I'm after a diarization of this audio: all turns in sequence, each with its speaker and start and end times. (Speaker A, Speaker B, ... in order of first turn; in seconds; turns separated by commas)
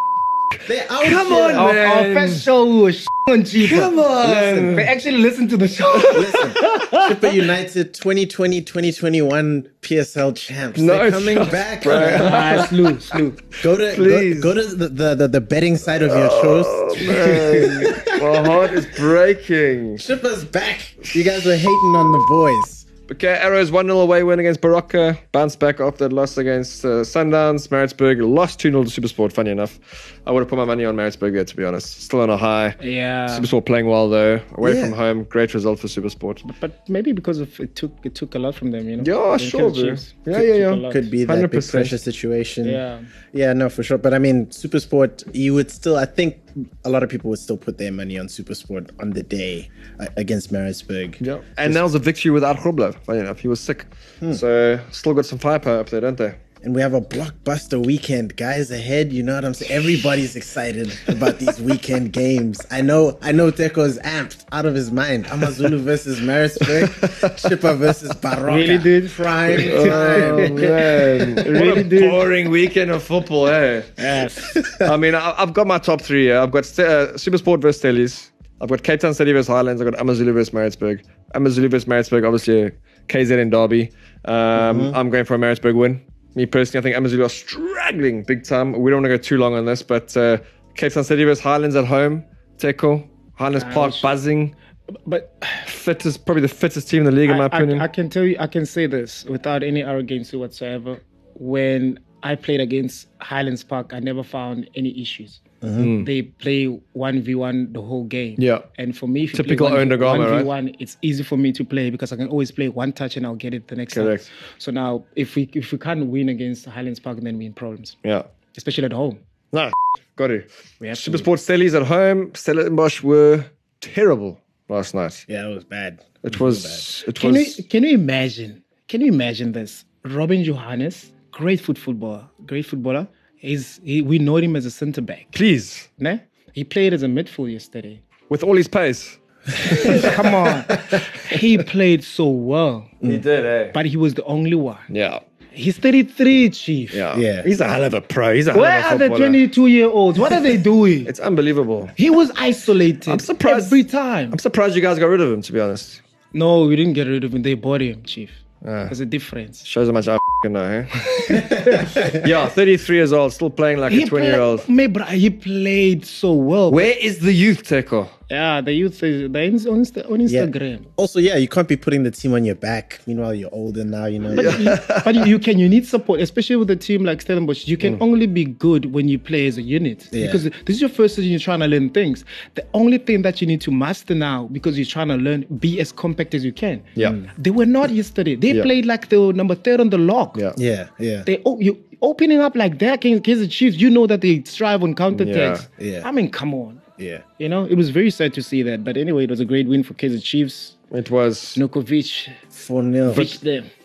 Speaker A: 0.7-1.7, Speaker B: 1.0-2.5, Speaker C: 1.4-4.0, Speaker B: 3.6-4.9, Speaker A: 4.2-4.8, Speaker C: 4.7-7.1, Speaker A: 6.1-12.7, Speaker B: 10.8-12.7, Speaker C: 11.9-13.4, Speaker A: 13.6-19.0, Speaker B: 13.7-14.6, Speaker B: 16.1-20.0, Speaker A: 20.0-22.9, Speaker B: 23.1-36.4, Speaker C: 32.8-33.5, Speaker A: 34.6-35.0, Speaker C: 36.4-41.1, Speaker B: 39.0-42.0, Speaker A: 40.8-51.8, Speaker C: 42.6-43.1, Speaker B: 51.2-56.4, Speaker A: 56.6-71.4, Speaker B: 66.6-67.5, Speaker C: 68.5-70.8, Speaker B: 69.6-73.9, Speaker C: 71.4-72.2, Speaker C: 74.0-74.6, Speaker A: 74.5-74.9, Speaker B: 74.8-94.5, Speaker A: 84.5-85.0, Speaker C: 93.5-94.1, Speaker C: 95.1-95.7, Speaker B: 95.6-97.9, Speaker C: 97.3-105.4, Speaker A: 105.6-105.9, Speaker B: 105.8-106.1, Speaker C: 106.0-118.0, Speaker B: 108.4-108.7, Speaker B: 109.3-110.5, Speaker B: 113.9-114.3, Speaker C: 118.5-119.2, Speaker B: 119.5-125.2, Speaker C: 120.8-121.3, Speaker A: 125.3-126.8, Speaker B: 126.2-127.6, Speaker C: 127.2-135.3, Speaker B: 135.3-135.9, Speaker C: 136.0-138.0, Speaker B: 138.3-140.1, Speaker C: 139.7-142.9, Speaker B: 143.0-143.8, Speaker C: 143.7-144.9, Speaker B: 144.9-145.2, Speaker C: 145.5-147.0, Speaker B: 146.9-149.4, Speaker A: 147.1-147.5, Speaker C: 148.5-151.1, Speaker B: 151.1-151.9, Speaker C: 151.9-154.4, Speaker B: 153.1-156.0, Speaker C: 156.3-159.7, Speaker B: 158.6-158.9, Speaker B: 159.7-161.4, Speaker C: 161.1-161.9, Speaker B: 162.0-164.7, Speaker C: 163.9-166.9, Speaker B: 166.7-168.1, Speaker C: 168.3-170.9, Speaker A: 170.2-174.6, Speaker C: 174.3-190.4, Speaker B: 174.3-175.2, Speaker A: 180.1-180.4, Speaker A: 187.0-187.3, Speaker A: 190.6-191.3, Speaker C: 191.2-196.8, Speaker B: 195.1-195.7, Speaker A: 195.8-196.1, Speaker A: 197.0-197.2, Speaker C: 197.4-200.8, Speaker B: 200.9-201.6, Speaker C: 201.6-202.4, Speaker A: 202.5-203.3, Speaker C: 203.1-203.7